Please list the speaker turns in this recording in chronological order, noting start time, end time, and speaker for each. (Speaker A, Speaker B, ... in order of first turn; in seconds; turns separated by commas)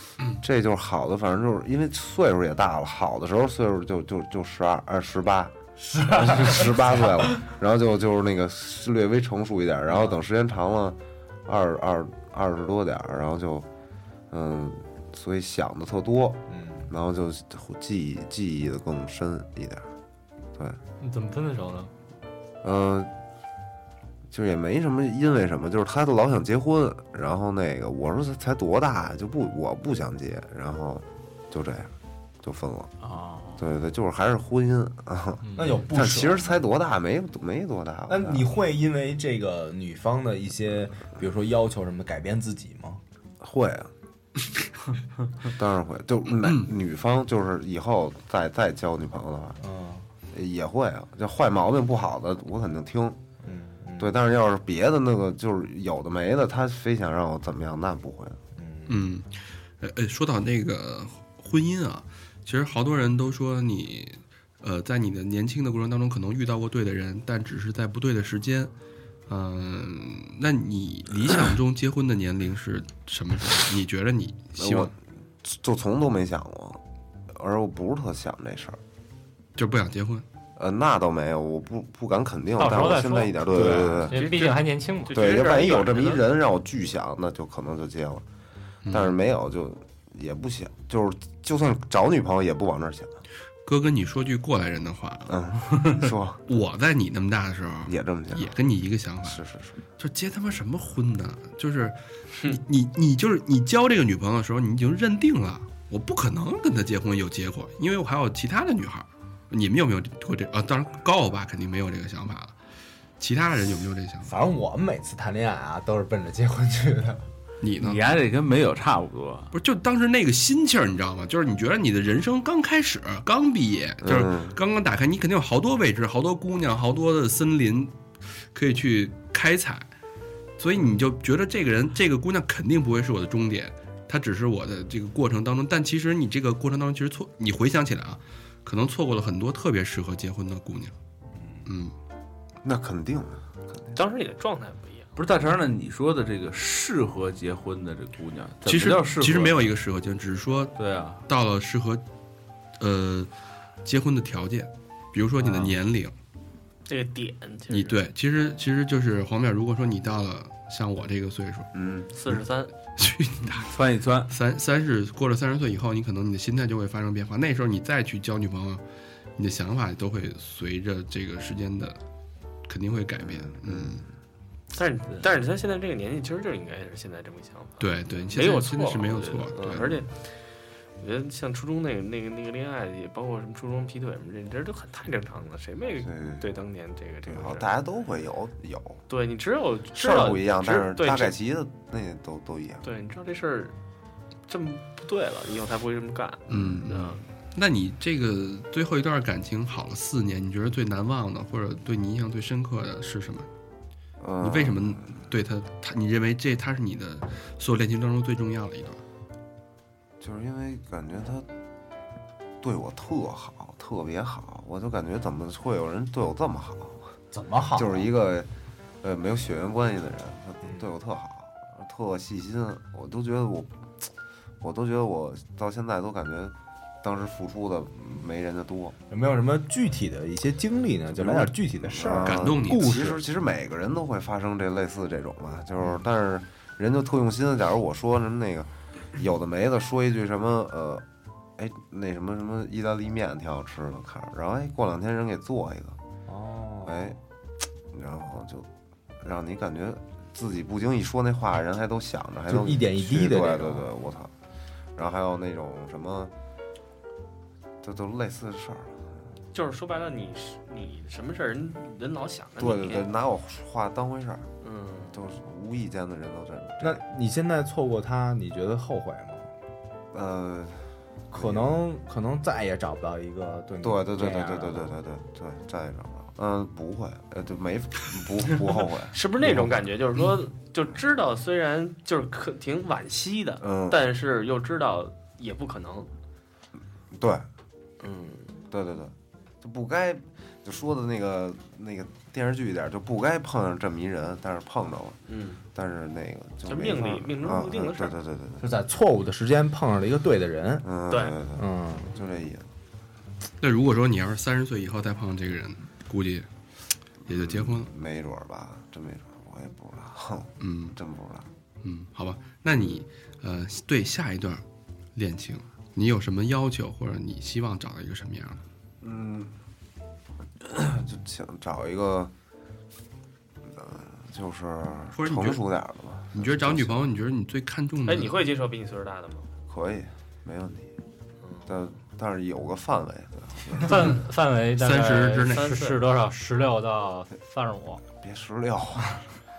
Speaker A: 0.4-13.7, Speaker B: 5.9-7.1, Speaker A: 14.3-19.9, Speaker B: 16.5-16.9, Speaker C: 21.0-21.9, Speaker A: 22.6-23.1, Speaker A: 24.3-32.9, Speaker D: 33.0-33.6, Speaker A: 33.6-38.5, Speaker B: 35.5-36.6, Speaker B: 38.1-43.0, Speaker A: 43.4-43.9, Speaker A: 45.5-49.6, Speaker B: 49.6-50.1, Speaker A: 50.3-53.2, Speaker B: 53.4-54.1, Speaker A: 54.0-58.4, Speaker B: 58.6-59.1, Speaker E: 58.9-68.7, Speaker E: 69.3-74.9, Speaker A: 74.6-78.8, Speaker E: 79.6-80.2, Speaker A: 80.6-84.2, Speaker C: 82.6-85.2, Speaker F: 84.1-86.2, Speaker A: 85.1-88.2, Speaker E: 88.9-89.1, Speaker A: 88.9-93.2, Speaker E: 93.7-95.4, Speaker A: 95.3-96.4, Speaker E: 96.5-99.4, Speaker A: 97.9-98.5, Speaker A: 99.2-99.8, Speaker E: 100.0-112.5, Speaker E: 113.2-114.3, Speaker B: 114.3-117.2, Speaker E: 117.6-118.1, Speaker D: 117.8-119.5, Speaker E: 119.5-129.9, Speaker A: 124.0-124.6, Speaker E: 130.6-140.9, Speaker E: 141.7-141.9, Speaker A: 142.6-144.0, Speaker F: 143.9-145.1, Speaker D: 145.2-149.7, Speaker E: 148.7-150.8, Speaker D: 150.8-151.2, Speaker E: 151.3-152.0, Speaker E: 152.8-153.3, Speaker E: 153.8-156.1, Speaker D: 155.4-155.8, Speaker F: 156.9-158.0, Speaker E: 157.7-161.7, Speaker A: 161.7-162.1, Speaker F: 162.1-162.7, Speaker E: 163.0-163.7, Speaker D: 163.6-164.3, Speaker E: 164.3-168.8, Speaker E: 169.4-172.0, Speaker E: 172.7-174.0, Speaker A: 173.2-174.0, Speaker F: 174.7-180.4, Speaker E: 177.8-180.0, Speaker F: 181.0-187.7, Speaker A: 186.0-186.5, Speaker A: 187.3-189.0, Speaker F: 189.1-191.3, Speaker A: 189.9-192.9, Speaker F: 192.8-193.7, Speaker F: 194.5-197.2, Speaker A: 196.5-196.9, Speaker E: 196.5-203.5, Speaker A: 204.2-205.2, Speaker E: 204.4-209.0, Speaker A: 210.2-211.5, Speaker A: 212.6-217.1, Speaker B: 217.3-218.1, Speaker A: 217.8-218.5, Speaker A: 219.0-224.1, Speaker A: 224.6-229.0, Speaker B: 229.1-233.2, Speaker A: 231.2-241.1, Speaker E: 232.2-233.0, Speaker A: 241.6-246.0, Speaker B: 246.3-247.2, Speaker A: 246.8-247.2, Speaker A: 247.9-248.7, Speaker A: 249.2-254.3, Speaker B: 252.5-253.9, Speaker A: 255.0-256.3, Speaker A: 257.8-259.1, Speaker F: 259.5-263.1, Speaker A: 262.6-264.5, Speaker F: 264.6-265.2, Speaker A: 265.1-267.0, Speaker B: 266.8-269.5, Speaker A: 270.1-271.7, Speaker B: 271.3-274.9, Speaker A: 273.8-279.8, Speaker F: 279.1-286.1, Speaker A: 283.6-284.0, Speaker A: 287.1-287.5, Speaker F: 288.0-288.6, Speaker A: 288.7-295.2, Speaker F: 295.3-295.6, Speaker A: 295.7-298.7, Speaker F: 296.7-298.2, Speaker B: 298.6-300.9, Speaker A: 300.8-302.7, Speaker F: 301.1-301.4, Speaker B: 301.5-302.2, Speaker E: 303.6-306.5, Speaker E: 307.3-307.9, Speaker A: 307.3-311.5, Speaker E: 310.6-311.0, Speaker E: 311.8-314.6, Speaker A: 312.7-313.0, Speaker E: 315.1-318.6, Speaker A: 319.0-319.6, Speaker A: 320.6-322.3, Speaker A: 323.7-327.1, Speaker E: 325.2-325.6, Speaker E: 326.3-328.4, Speaker F: 328.1-329.5, Speaker A: 329.7-330.9, Speaker A: 331.7-334.2, Speaker C: 333.8-338.0, Speaker E: 334.8-335.7, Speaker F: 335.5-336.0, Speaker A: 338.2-339.2